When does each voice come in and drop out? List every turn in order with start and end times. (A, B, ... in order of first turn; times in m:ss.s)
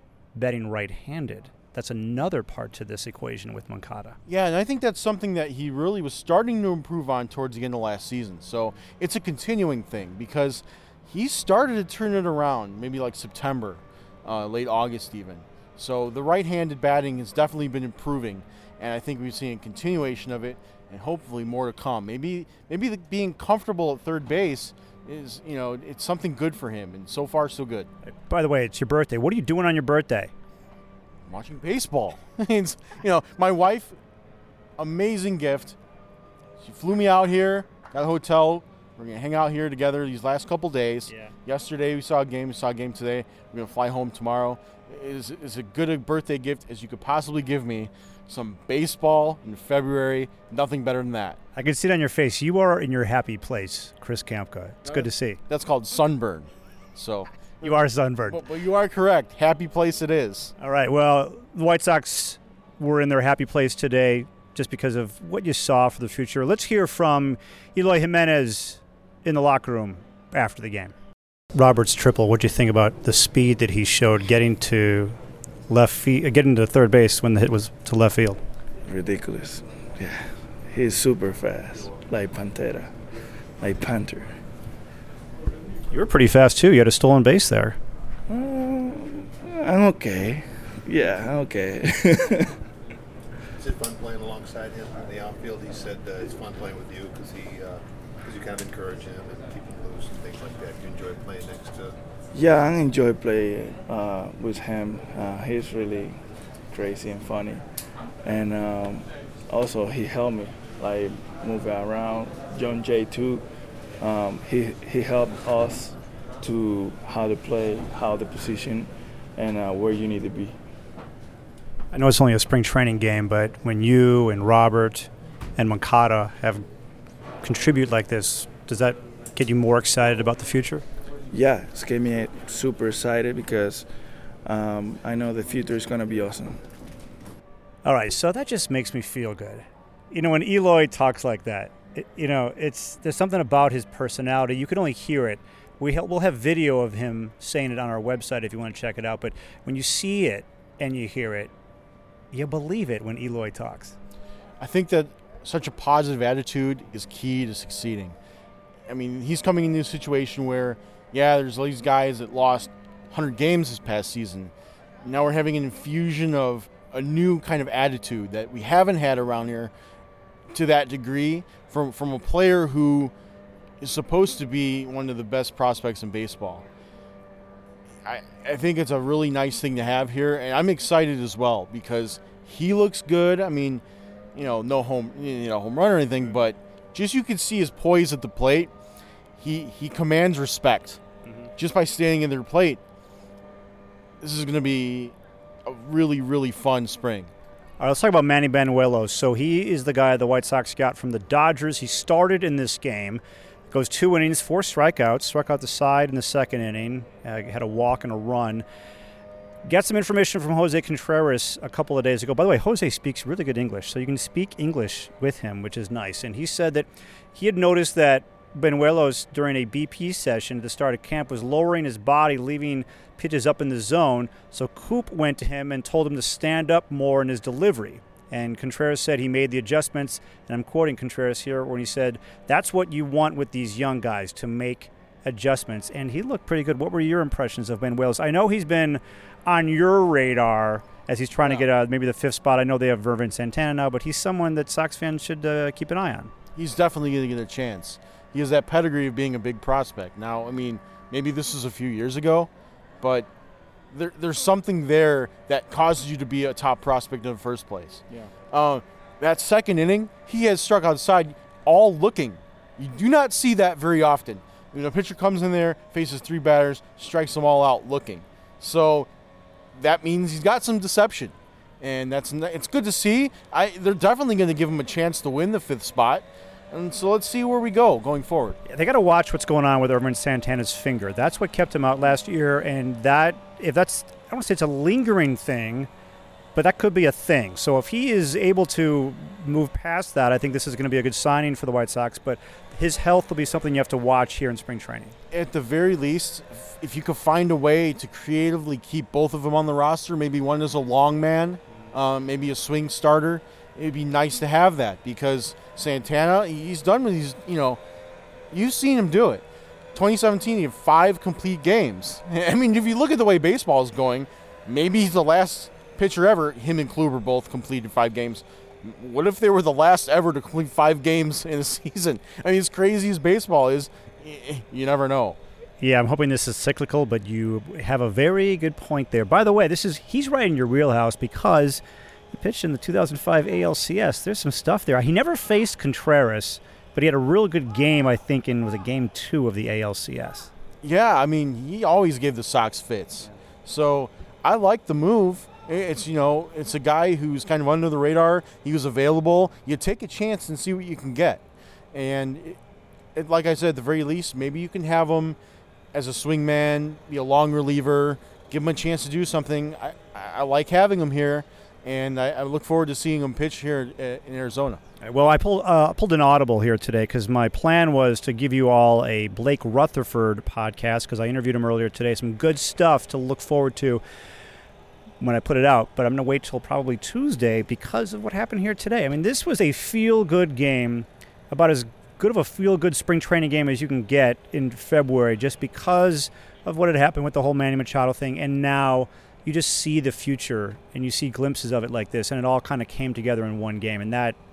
0:00.3-0:04.2 A
0:04.3-0:27.9 B
0:28.1-0:30.3 A
0:31.3-0:34.0 B
0:34.8-0:35.8 B
0:36.6-0:51.4 B
0:41.1-0:41.3 A
0:51.5-0:55.4 A
0:54.8-1:00.5 B
0:57.6-0:58.4 A
1:00.6-1:10.9 A
1:11.5-1:15.2 A
1:15.7-1:18.4 A
1:18.8-1:22.9 C
1:23.6-1:24.3 C
1:25.9-1:27.8 A
1:28.3-1:32.6 C
1:33.6-1:42.0 D
1:42.3-1:47.6 C
1:48.2-1:53.4 C
1:54.0-2:00.6 C
2:01.9-2:06.6 A
2:07.4-2:10.8 A
2:11.3-2:13.9 C
2:14.4-2:16.6 C
2:17.8-2:31.5 A
2:32.3-2:33.9 A
2:34.6-2:38.1 B
2:38.9-2:44.5 B
2:45.0-2:49.7 B
2:50.5-2:53.1 B
2:53.8-2:56.6 B
2:58.0-3:03.8 B
3:04.3-3:08.7 B
3:09.4-3:11.0 B
3:11.2-3:11.5 A
3:11.6-3:12.8 B
3:14.2-3:15.1 B
3:15.6-3:17.3 B
3:17.8-3:28.6 A
3:29.6-4:06.3 A
4:01.4-4:01.7 B
4:06.6-4:12.5 B
4:13.0-4:13.3 B
4:13.9-4:29.1 B
4:29.7-4:38.6 B
4:38.7-4:45.9 A
4:46.5-4:55.2 A
4:55.3-5:07.8 B
5:08.5-5:09.4 B
5:09.9-5:25.4 B
5:25.8-5:40.5 A
5:40.8-5:51.4 B
5:51.9-5:52.6 B
5:53.2-5:55.4 B
5:55.9-6:04.8 B
6:05.0-6:14.0 A
6:15.2-6:34.4 A